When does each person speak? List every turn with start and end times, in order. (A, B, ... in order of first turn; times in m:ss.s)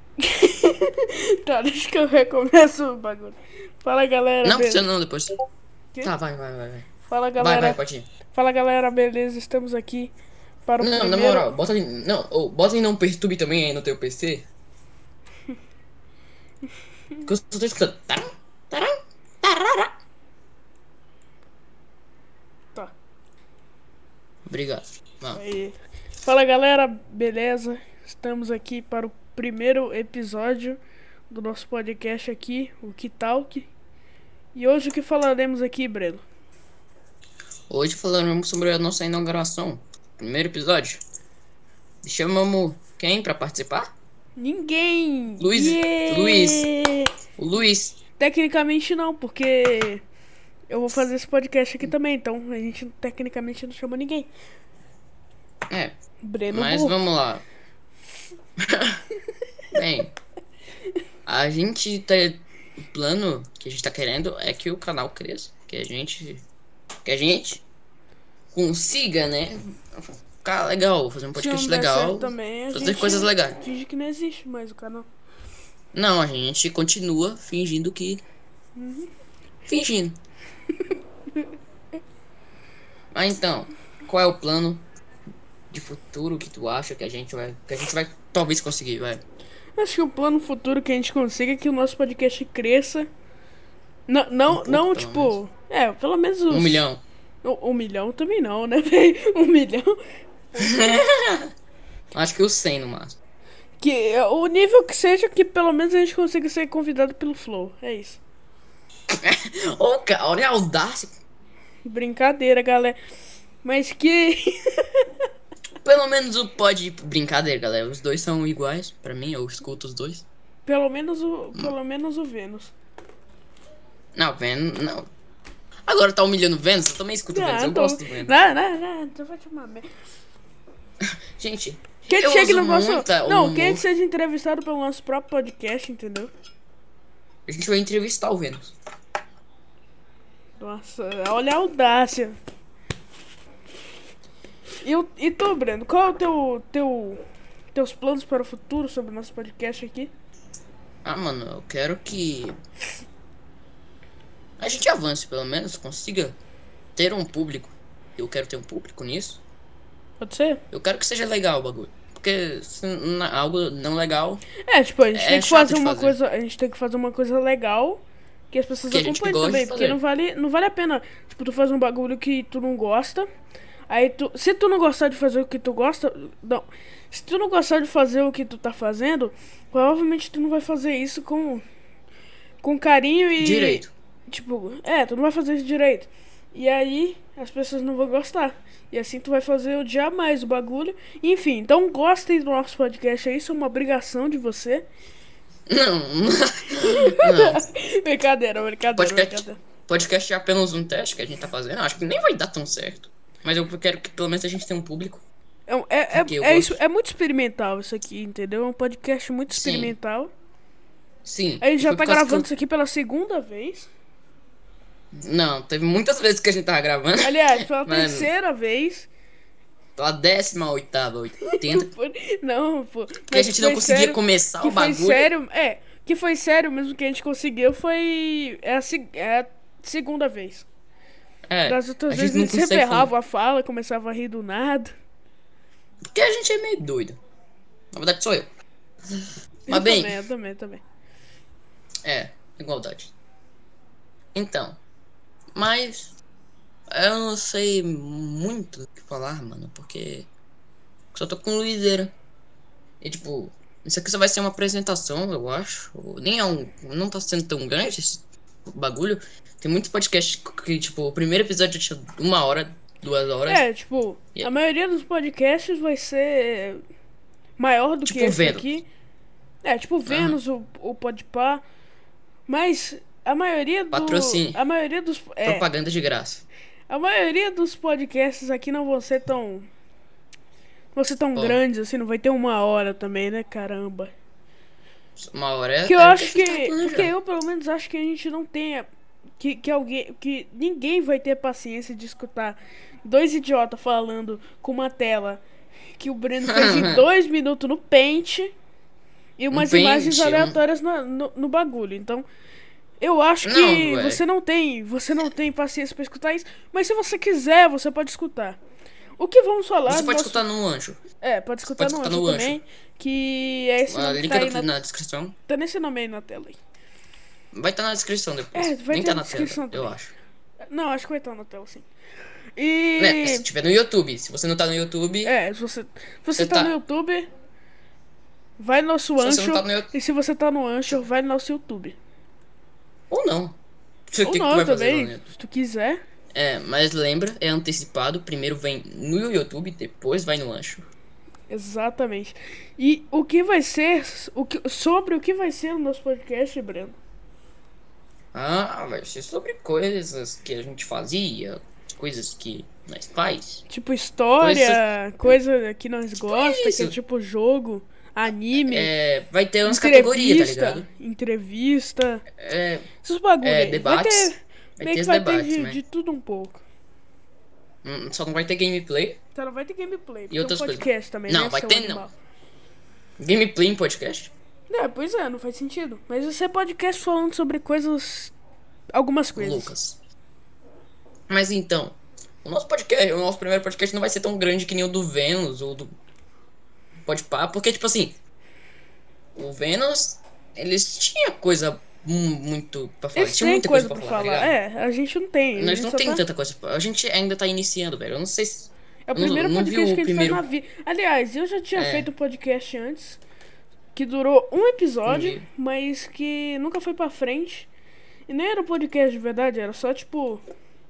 0:00.2-0:04.8 A
0:04.4-0:05.4 B
0:06.0-0:08.0 B
0:07.1-0:07.8 A
0:08.3-0:10.1 A
0:10.7-0:11.5 A
0:10.8-0:14.4 B
0:17.2-0:19.9 B
0:24.4-0:25.4 B
0:25.3-0:33.7 A
0:34.5-0:36.2 A
0:37.7-0:41.0 B
0:42.0-0:43.9 B
0:44.4-0:47.1 A
0:45.4-0:46.7 B
0:47.4-0:48.0 B
0:48.2-0:50.0 A
0:50.7-0:54.3 A
0:55.7-0:56.0 B
0:56.2-0:57.0 A
0:56.5-0:57.4 B
0:58.6-0:59.0 B
0:59.7-1:00.1 B
1:01.2-1:06.4 B
1:07.0-1:07.6 B
1:08.5-1:13.6 B
1:11.3-1:15.1 A
1:15.9-1:18.2 B
1:18.8-1:19.1 A
1:19.7-1:20.2 B
1:23.1-1:24.8 B
1:25.7-1:29.2 B
1:29.8-1:33.1 A
1:34.1-1:36.9 A
1:34.5-1:35.4 B
1:36.5-1:37.0 B
1:37.4-1:40.0 A
1:40.5-1:40.9 A
1:40.6-1:41.5 B
1:42.1-1:43.2 B
1:43.8-1:48.2 A
1:49.1-1:51.1 B
1:51.8-1:53.0 A
1:53.6-1:55.0 A
1:55.8-2:00.2 B
2:00.6-2:02.7 A
2:04.1-2:05.1 B
2:05.9-2:08.4 B
2:07.3-2:09.8 A
2:11.4-2:13.8 B
2:12.1-2:16.3 A
2:17.5-2:18.7 B
2:20.6-2:22.4 A
2:24.8-2:27.2 A
2:27.7-2:30.1 A
2:31.0-2:32.6 B
2:34.6-2:36.4 B
2:37.0-2:39.4 B
2:40.2-2:40.6 A
2:40.7-2:44.4 B
2:44.7-2:53.2 A
2:45.1-2:46.2 B
2:48.9-2:50.0 B
2:53.9-3:01.6 A
3:02.6-3:14.9 A
3:03.4-3:03.9 B
3:15.7-3:17.6 B
3:16.8-3:19.6 A
3:18.9-3:25.2 B
3:25.7-3:30.3 A
3:26.1-3:26.8 B
3:29.5-3:30.0 B
3:31.2-3:32.5 B
3:31.6-3:33.9 A
3:35.1-3:38.3 B
3:37.2-3:39.1 A
3:40.0-3:41.9 B
3:41.5-3:50.6 A
3:43.3-3:45.3 B
3:51.5-3:53.1 B
3:51.6-3:54.9 A
3:56.1-3:57.2 B
3:57.9-3:58.5 B
3:59.1-4:00.2 B
3:59.7-4:00.8 A
4:02.0-4:03.1 B
4:04.3-4:04.8 B
4:05.6-4:06.1 B
4:06.9-4:10.3 B
4:11.1-4:12.1 B
4:13.0-4:23.6 B
4:23.5-4:26.8 A
4:27.6-4:28.8 A
4:28.0-4:28.7 B
4:29.6-4:31.6 A
4:30.0-4:30.4 B
4:32.5-4:35.6 A
4:33.9-4:34.6 B
4:35.4-4:36.4 B
4:36.9-4:39.7 A
4:40.9-4:44.1 A
4:41.4-4:41.6 B
4:45.2-4:47.1 B
4:45.8-4:48.9 A
4:49.4-4:55.4 A
4:56.0-4:58.5 A
4:56.4-4:57.0 B
4:59.4-5:02.2 A
4:59.5-5:00.6 B
5:03.0-5:08.6 A
5:03.4-5:04.2 B
5:09.2-5:10.4 A
5:09.8-5:11.0 B
5:11.2-5:14.7 A
5:11.7-5:12.6 B
5:13.9-5:15.4 B
5:15.5-5:16.6 A
5:17.5-5:20.1 B
5:18.5-5:19.9 A
5:20.7-5:21.9 A
5:22.6-5:23.4 A
5:23.0-5:25.3 B
5:25.2-5:27.3 A
5:26.3-5:26.7 B
5:28.6-5:32.0 A
5:29.2-5:29.9 B
5:33.1-5:33.6 B
5:34.1-5:35.2 B
5:34.2-5:36.0 A
5:36.3-5:40.9 B
5:41.5-5:47.0 A
5:48.3-5:53.6 B
5:53.7-5:58.9 A
5:54.4-5:54.8 B
5:56.2-5:57.0 B
5:58.6-6:00.8 B
5:59.6-6:02.2 A
6:02.4-6:02.9 B
6:03.0-6:06.6 A
6:03.4-6:05.8 B
6:07.8-6:09.2 B
6:09.3-6:12.1 A
6:10.3-6:12.0 B
6:13.2-6:14.3 B
6:14.7-6:18.3 A
6:18.9-6:19.7 A
6:19.3-6:20.0 B
6:21.3-6:25.9 B
6:27.0-6:28.2 B
6:29.3-6:34.5 B
6:33.1-6:36.2 A
6:35.5-6:40.4 B
6:39.1-6:43.2 A
6:41.7-6:42.1 B
6:43.9-6:47.7 A
6:45.1-6:45.5 B
6:48.3-6:50.4 A